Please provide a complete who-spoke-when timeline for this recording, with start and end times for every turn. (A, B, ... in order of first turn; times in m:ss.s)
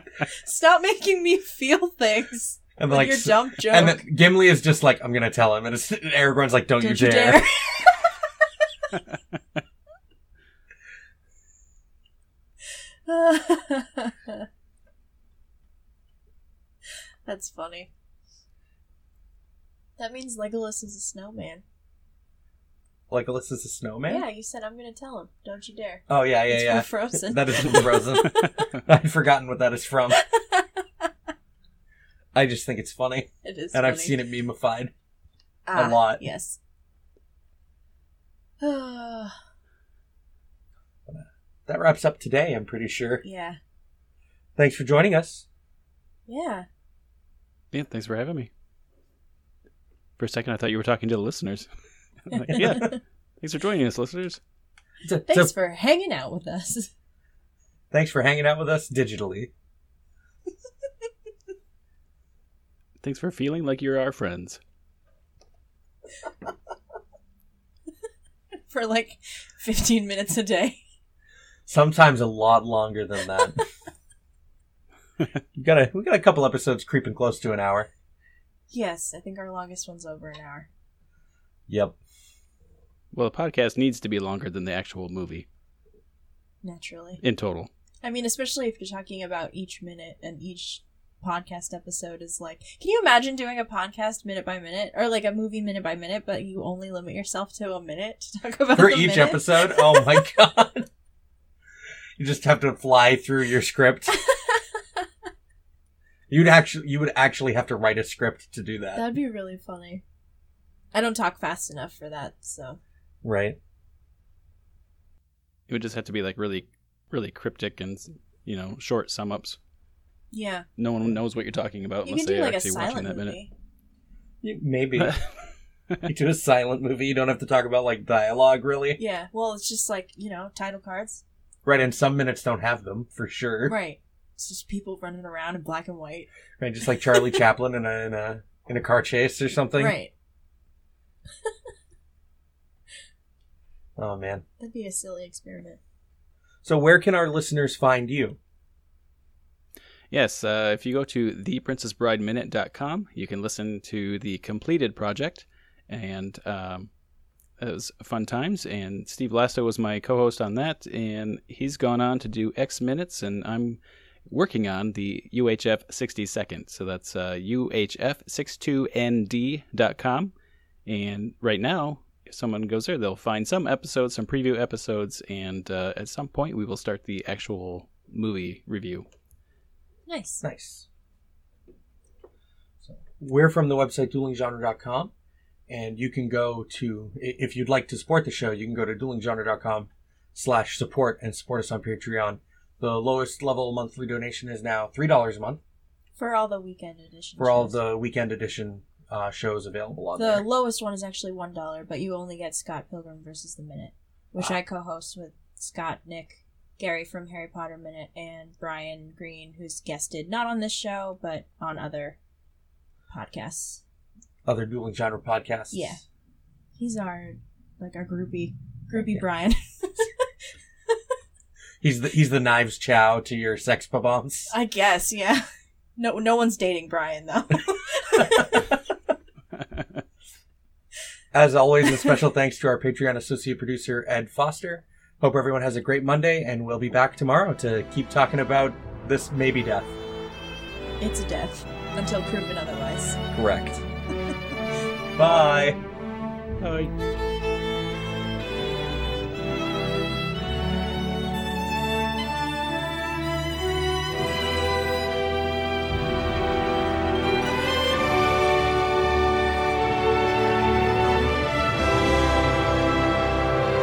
0:00.2-0:04.0 A
0:02.8-0:07.4 B
0:06.8-0:08.3 A
0:13.1-0:14.5 A
0:17.3-0:17.9 A
0:20.0-0:21.6 A
0:23.1-0:24.3 B
0:24.1-0:28.7 A
0:26.1-0:30.2 B
0:30.1-0:31.1 A
0:32.3-0:34.9 B
0:33.4-0:34.2 A
0:35.7-0:36.6 A
0:35.8-0:36.2 B
0:38.6-0:39.4 A
0:41.1-0:43.2 B
0:43.2-0:43.6 A
0:44.6-0:45.5 B
0:46.3-0:46.7 A
0:47.7-0:48.5 C
0:50.2-0:51.7 C
0:52.3-0:54.4 C
0:52.6-0:53.0 A
0:55.0-0:55.5 B
0:55.3-0:56.9 A
0:57.9-0:59.5 B
1:03.0-1:04.6 C
1:08.7-1:10.8 A
1:11.7-1:13.6 B
1:15.6-1:17.9 B
1:18.7-1:20.7 A
1:21.7-1:22.0 B
1:23.1-1:25.5 C
1:26.6-1:27.2 A
1:27.2-1:27.7 C
1:28.0-1:40.3 A
1:38.8-1:40.9 B
1:42.2-1:44.2 B
1:44.1-1:44.6 A
1:46.3-1:49.1 B
1:49.0-1:50.0 A
1:50.9-1:52.8 A
1:53.2-1:53.6 B
1:55.7-1:59.6 C
2:00.3-2:00.7 A
2:00.8-2:03.4 C
2:02.0-2:03.5 A
2:04.4-2:05.2 B
2:05.0-2:05.3 C
2:06.0-2:09.0 B
2:09.0-2:11.2 A
2:11.6-2:13.8 B
2:13.6-2:16.3 A
2:16.6-2:20.0 B
2:16.9-2:17.4 A
2:19.8-2:20.1 A
2:24.0-2:24.4 B
2:24.6-2:25.8 A
2:26.6-2:28.4 B
2:30.1-2:36.9 C
2:37.6-2:50.3 C
2:50.9-2:59.1 C
3:00.1-3:00.4 A
3:00.4-3:00.9 B
3:02.8-3:05.1 B
3:05.7-3:15.6 B
3:16.2-3:17.8 A
3:17.4-3:20.5 B
3:20.2-3:32.2 A
3:33.1-3:33.8 A
3:34.4-3:36.0 B
3:35.7-3:36.0 A
3:36.8-3:40.3 A
3:41.8-3:44.5 B
3:44.5-3:45.4 A
3:46.0-3:48.8 A
3:48.2-3:48.5 B
3:51.3-3:59.9 B
4:01.0-4:03.2 A
4:03.3-4:03.8 B
4:05.2-4:05.8 B
4:06.6-4:06.9 C